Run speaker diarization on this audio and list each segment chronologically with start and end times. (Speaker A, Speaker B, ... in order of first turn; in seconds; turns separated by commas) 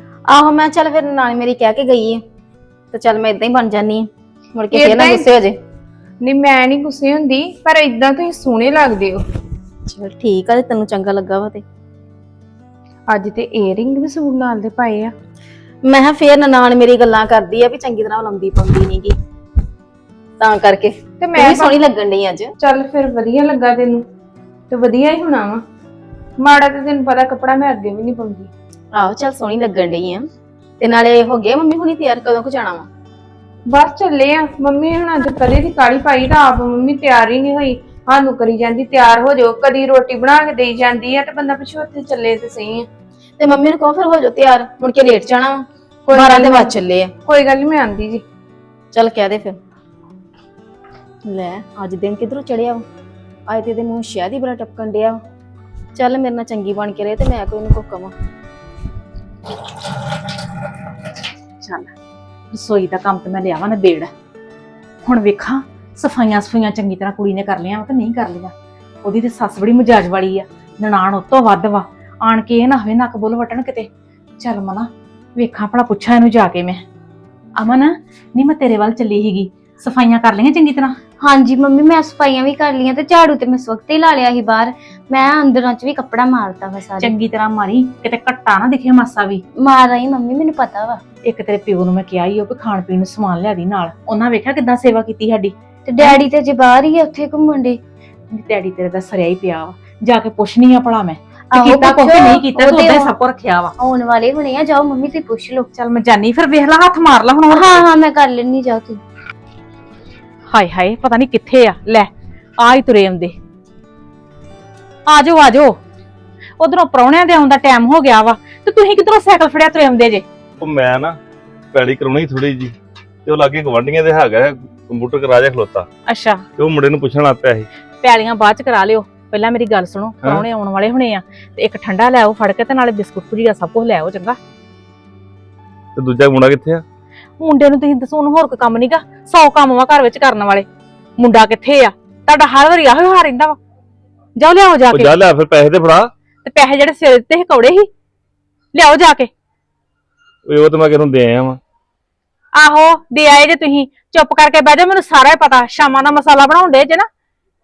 Speaker A: 0.3-2.2, Speaker A: 2.9-5.6, Speaker B: 4.7-5.3, Speaker B: 6.2-9.2, Speaker A: 9.9-11.6, Speaker B: 13.1-15.1, Speaker A: 15.8-19.2, Speaker A: 20.4-22.5, Speaker B: 21.2-21.8, Speaker B: 22.6-24.1, Speaker B: 24.7-25.6, Speaker B: 26.4-28.5, Speaker A: 28.9-30.3, Speaker A: 30.8-32.9, Speaker B: 33.7-42.9, Speaker A: 43.4-47.1, Speaker B: 46.1-46.8, Speaker B: 47.3-48.2, Speaker A: 48.9-49.6, Speaker A: 51.2-52.9, Speaker A: 53.5-55.2, Speaker A: 56.0-58.1, Speaker C: 61.6-61.9, Speaker C: 62.5-64.1, Speaker C: 65.0-68.5, Speaker C: 69.0-73.9, Speaker C: 74.4-76.8, Speaker C: 77.6-81.0, Speaker D: 81.2-87.1, Speaker C: 87.0-89.4, Speaker D: 89.6-91.0, Speaker C: 91.2-96.2, Speaker D: 95.8-97.8, Speaker C: 98.3-103.7, Speaker D: 101.5-103.2, Speaker D: 103.8-105.7, Speaker C: 105.7-107.8, Speaker D: 107.5-109.0, Speaker C: 110.5-113.3, Speaker C: 115.1-115.8, Speaker C: 116.6-120.2, Speaker E: 120.6-121.2, Speaker E: 121.7-122.8, Speaker E: 123.3-125.9, Speaker C: 126.1-126.5, Speaker E: 126.6-127.7, Speaker C: 128.0-134.4, Speaker E: 136.0-136.8, Speaker C: 137.4-140.7, Speaker C: 141.2-143.6, Speaker C: 144.4-145.2, Speaker E: 144.9-146.1, Speaker C: 146.4-147.9, Speaker C: 148.7-149.3, Speaker E: 150.5-151.6, Speaker C: 152.6-157.1